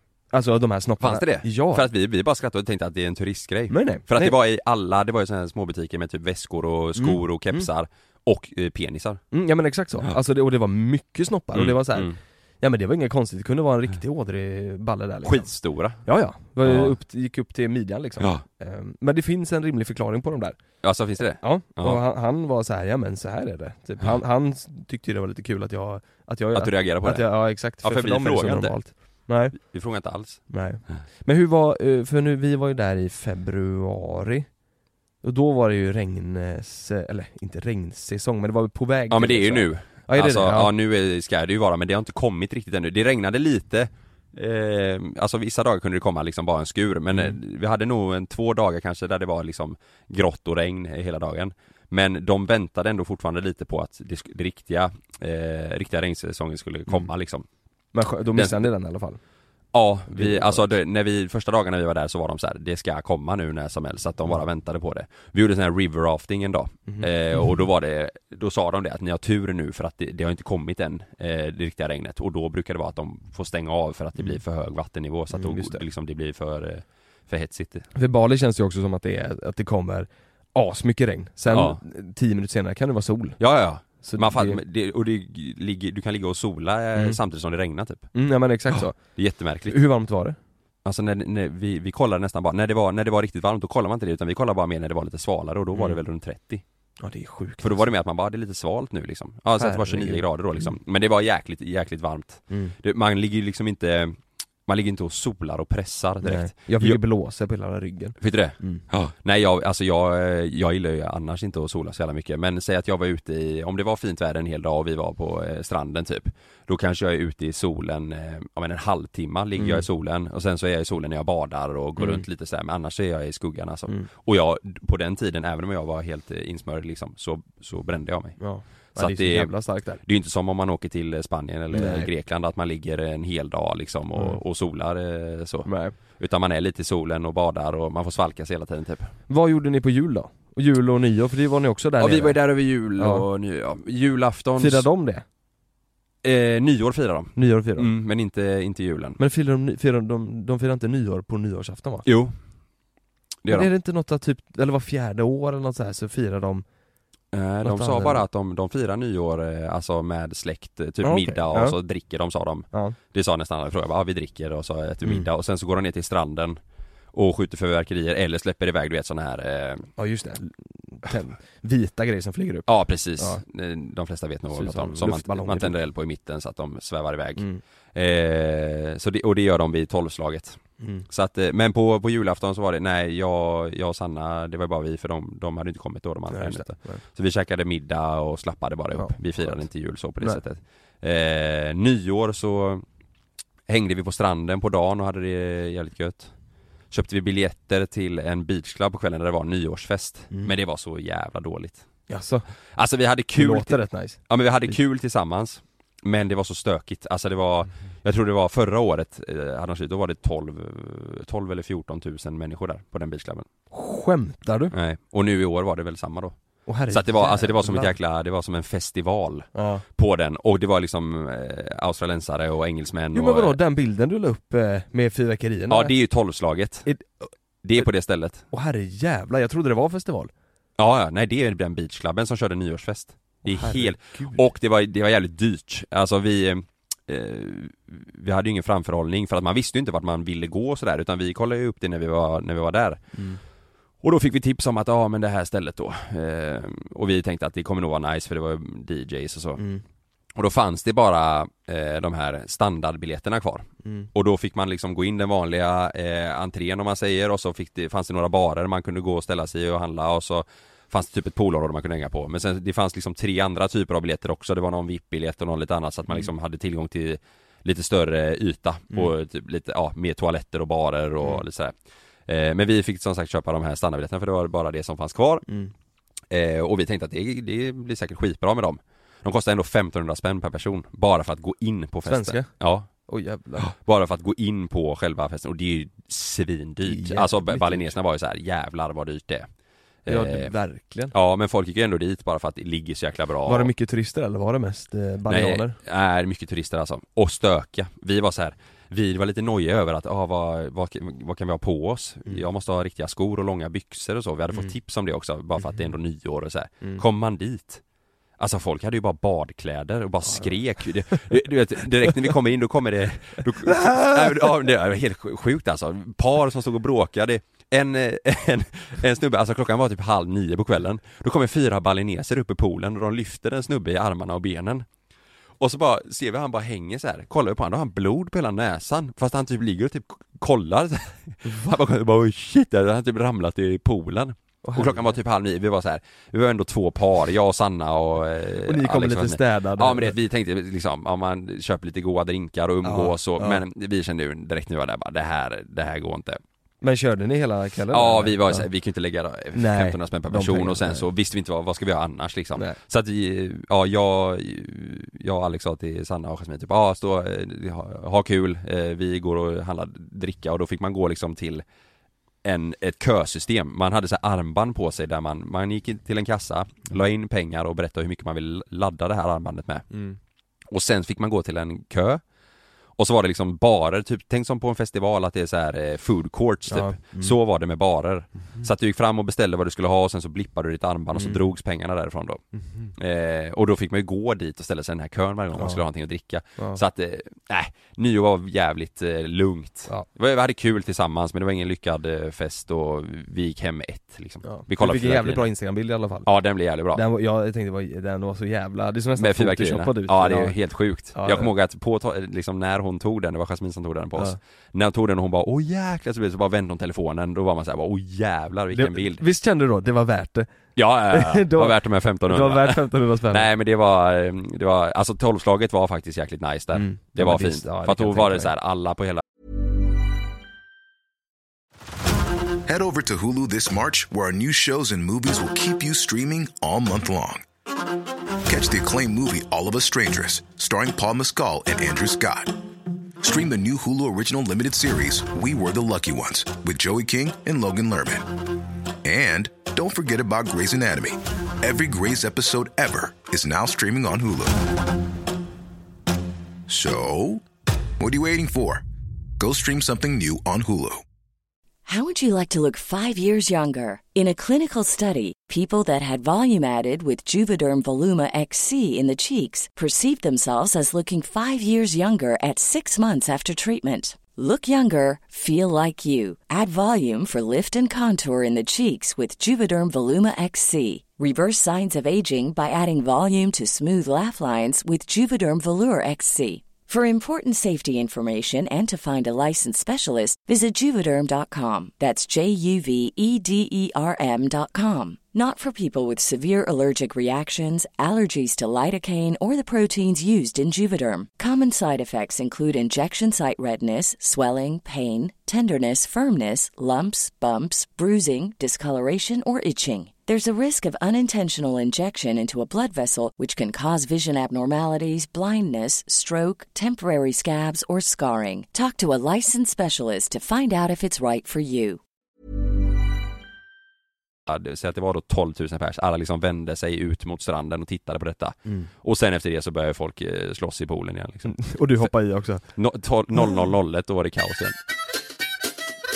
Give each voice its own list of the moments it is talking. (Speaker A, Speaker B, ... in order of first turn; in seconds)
Speaker A: 0.3-1.9, 3.7-4.4, 7.0-7.7, 9.3-29.6, 30.5-34.5, 35.2-40.7, 57.9-59.2, 60.1-60.8, 66.9-67.4, 75.3-75.8, 78.0-84.6, 86.9-87.2, 88.1-90.4, 95.7-96.0, 97.0-97.9, 99.6-100.8, 102.5-102.8, 106.2-108.8, 119.6-119.9, 122.0-122.3, 128.4-130.0, 131.7-132.1, 134.1-134.4, 135.7-136.0, 139.3-143.3, 144.6-145.2, 147.3-147.9, 149.2-152.1, 153.5-156.7, 157.6-158.2, 161.0-161.8, 170.0-173.4, 174.6-175.8, 177.4-177.6, 180.8-181.1, 186.3-187.0, 188.9-189.7, 202.1-202.4, 203.3-204.8, 213.7-214.7, 216.7-217.9, 219.6-219.8, 223.1-225.9, 226.9-227.9, 228.5-230.3, 233.4-234.4, 243.1-243.4, 249.6-249.8, 275.5-275.7, 282.1-283.7, 286.8-288.0, 290.1-291.1, 293.5-295.8, 305.6-305.9, 313.7-314.1, 334.6-335.2, 338.6-340.1, 342.8-343.6, 346.8-348.7, 349.5-351.1, 369.9-370.2, 376.7-377.4, 381.1-381.4, 382.6-382.9, 385.6-385.8, 394.4-396.3, 396.9-400.6, 401.1-401.5, 408.7-413.5, 416.8-418.5, 521.5-522.7
Speaker B: 1.0-9.2, 11.5-12.2, 15.2-17.0, 20.8-22.0, 26.5-31.0, 39.1-57.5, 58.4-58.7, 59.7-77.9, 81.5-81.8, 83.4-89.8, 90.8-96.6, 97.6-107.0, 108.2-139.2, 142.0-144.9, 146.2-149.2, 152.1-152.4, 153.4-153.7, 157.3-166.6, 167.1-169.9, 172.7-192.8, 193.7-202.1, 202.8-213.5, 214.7-223.6, 225.7-226.9, 227.6-228.4, 230.8-243.3, 244.0-249.6, 250.4-271.7, 272.3-275.5, 276.3-282.9, 283.6-289.5, 290.1-290.5, 291.1-293.7, 295.3-307.8, 308.4-324.9, 325.6-346.4, 347.9-361.6, 362.4-369.9, 370.7-372.2, 373.0-395.5, 396.2-397.0, 399.1-409.2, 410.8-419.2, 514.5-524.8
Speaker C: 422.6-427.4, 428.5-432.6, 433.2-438.4, 439.0-444.6, 446.7-447.4, 448.0-448.8, 449.4-451.0
Speaker D: 451.9-512.0